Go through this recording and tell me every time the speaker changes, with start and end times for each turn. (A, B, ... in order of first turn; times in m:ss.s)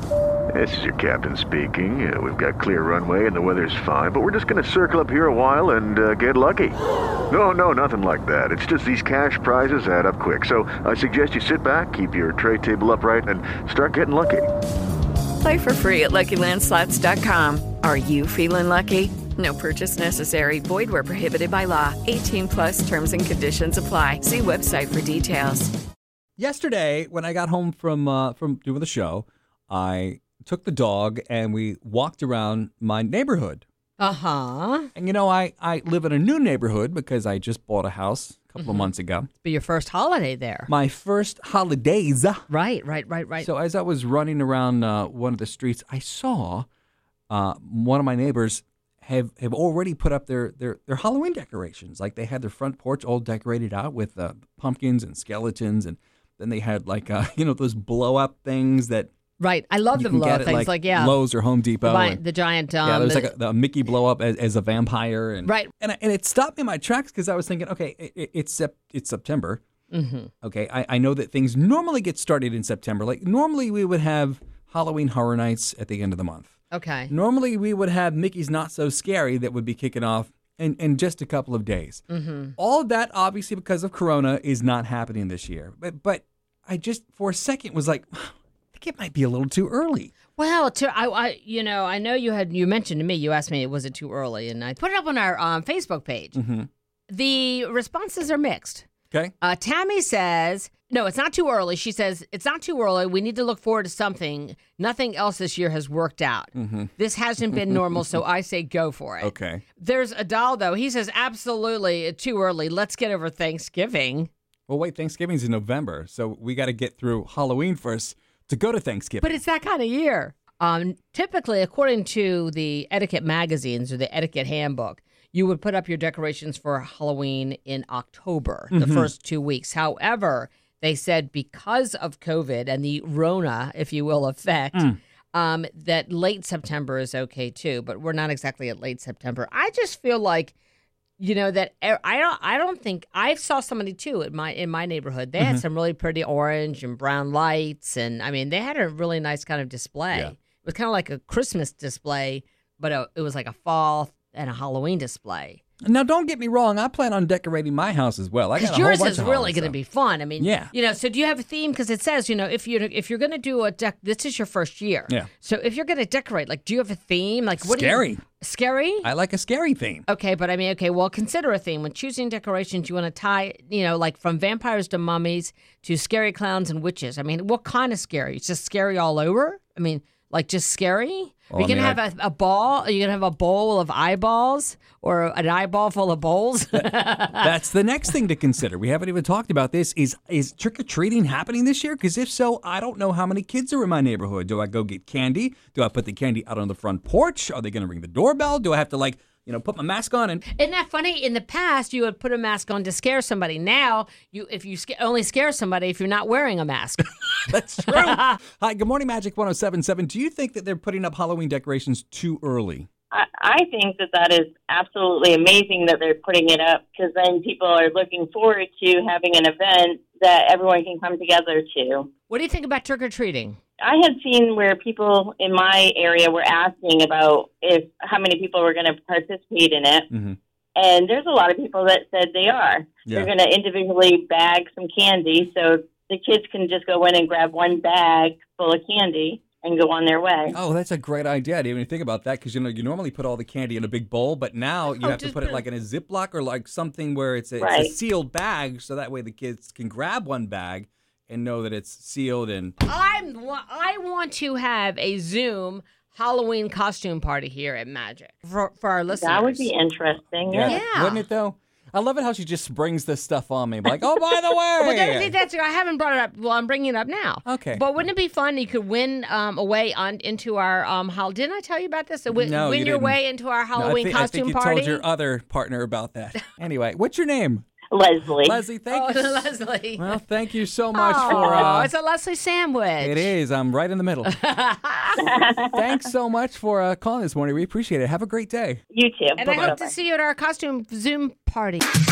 0:00.5-0:06.8 A
0:07.3-0:14.5 A
0:15.4-0:25.7 B
0:26.4-0:33.6 C
0:34.0-0:34.9 D
0:35.0-0:39.3 C
0:38.6-0:40.7 D
0:40.7-0:42.5 C
0:42.5-0:43.5 D
0:43.4-0:46.7 C
0:47.3-0:59.1 C
0:59.4-1:01.2 D
0:59.9-1:02.2 C
1:01.8-1:03.3 D
1:02.8-1:09.6 C
1:05.4-1:05.7 D
1:09.9-1:10.3 D
1:10.4-1:16.5 C
1:16.7-1:17.1 D
1:17.1-1:22.0 C
1:22.1-1:22.6 D
1:22.6-1:30.1 C
1:30.4-1:36.4 D
1:36.3-1:36.7 C
1:37.1-1:38.9 D
1:39.4-1:54.3 D
1:46.6-1:46.9 C
1:47.4-1:47.9 C
1:49.2-1:49.6 C
1:54.7-1:59.4 C
1:59.2-2:20.5 D
2:08.7-2:09.1 C
2:21.2-2:35.6 D
2:35.8-2:39.8 C
2:38.6-2:49.1 D
2:40.4-2:40.7 C
2:47.6-2:48.2 C
2:49.0-2:50.1 C
2:50.1-3:07.5 D
3:01.5-3:02.0 C
3:06.7-3:20.4 C
3:20.5-3:28.4 D
3:27.5-3:32.9 C
3:33.1-3:42.1 E
3:42.3-3:43.6 D
3:43.8-3:50.1 E
3:50.1-3:50.4 C
3:50.8-4:00.5 E
4:00.5-4:12.8 C
4:04.9-4:05.6 D
4:07.6-4:07.9 E
4:12.8-4:19.7 D
4:19.1-4:20.8 E
4:20.5-4:25.3 C
4:20.6-4:21.2 D
4:24.8-4:35.0 D
4:27.4-4:27.8 C
4:32.3-4:33.2 C
4:33.8-4:37.7 C
4:37.9-4:38.6 E
4:38.4-4:41.9 C
4:38.9-4:40.2 D
4:40.9-4:43.3 D
4:41.3-4:41.7 E
4:43.0-4:44.4 C
4:44.2-4:45.2 D
4:45.2-4:45.7 E
4:45.7-4:48.8 C
4:48.9-4:49.9 E
4:49.4-4:51.8 D